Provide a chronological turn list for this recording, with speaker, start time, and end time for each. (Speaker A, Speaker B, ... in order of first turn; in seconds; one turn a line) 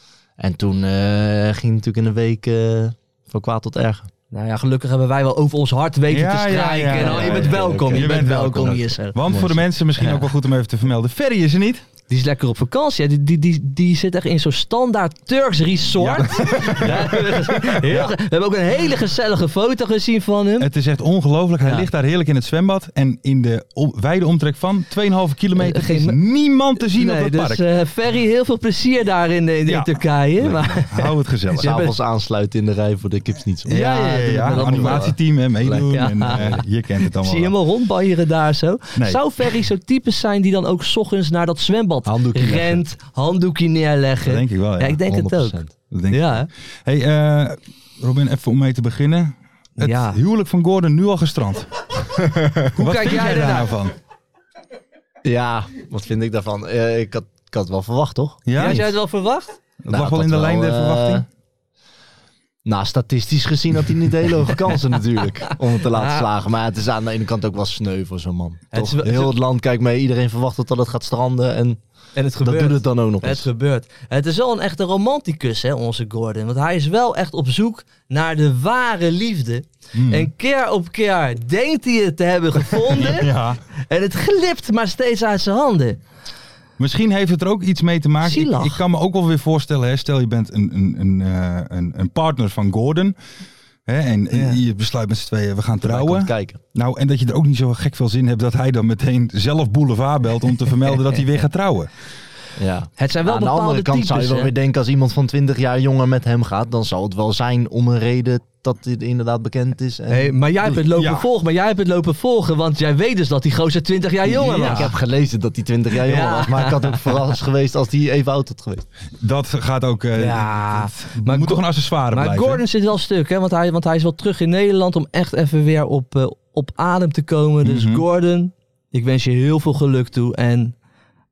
Speaker A: 0.4-4.1
Speaker B: 4.3-9.2
Speaker C: 6.1-11.9
Speaker A: 6.9-9.6
Speaker B: 12.1-20.7
Speaker C: 16.0-18.1
Speaker C: 20.6-27.6
Speaker B: 21.6-21.9
Speaker B: 25.6-26.2
Speaker B: 26.9-31.9
Speaker C: 29.7-31.7
Speaker A: 30.4-30.7
Speaker A: 31.6-36.6
Speaker C: 33.7-37.6
Speaker B: 33.7-35.2
Speaker B: 35.9-46.5
Speaker C: 39.0-39.6
Speaker A: 42.1-42.8
Speaker C: 44.2-45.0
Speaker A: 45.1-45.7
Speaker C: 45.9-52.2
Speaker B: 49.8-50.2
Speaker A: 52.2-52.7
Speaker B: 52.8-53.7
Speaker C: 52.8-54.0
Speaker A: 55.2-58.8
Speaker C: 58.5-58.9
Speaker B: 58.5-59.6
Speaker C: 59.8-61.3
Speaker A: 59.9-61.3
Speaker A: 62.6-71.8
Speaker B: 65.9-66.3
Speaker B: 68.7-69.3
Speaker B: 72.2-83.3
Speaker A: 72.4-73.5
Speaker C: 79.9-80.3
Speaker C: 82.8-83.6
Speaker B: 83.9-86.0
Speaker C: 86.8-93.2
Speaker B: 88.2-88.8
Speaker C: 93.9-101.9
Speaker B: 94.3-94.6
Speaker A: 95.8-96.6
Speaker A: 102.6-110.8
Speaker B: 103.0-104.5
Speaker B: 110.1-114.9
Speaker C: 111.0-111.3
Speaker A: 114.3-118.9
Speaker C: 114.4-114.9
Speaker B: 116.0-117.3
Speaker C: 119.2-122.6
Speaker B: 120.2-130.8
Speaker C: 127.6-128.0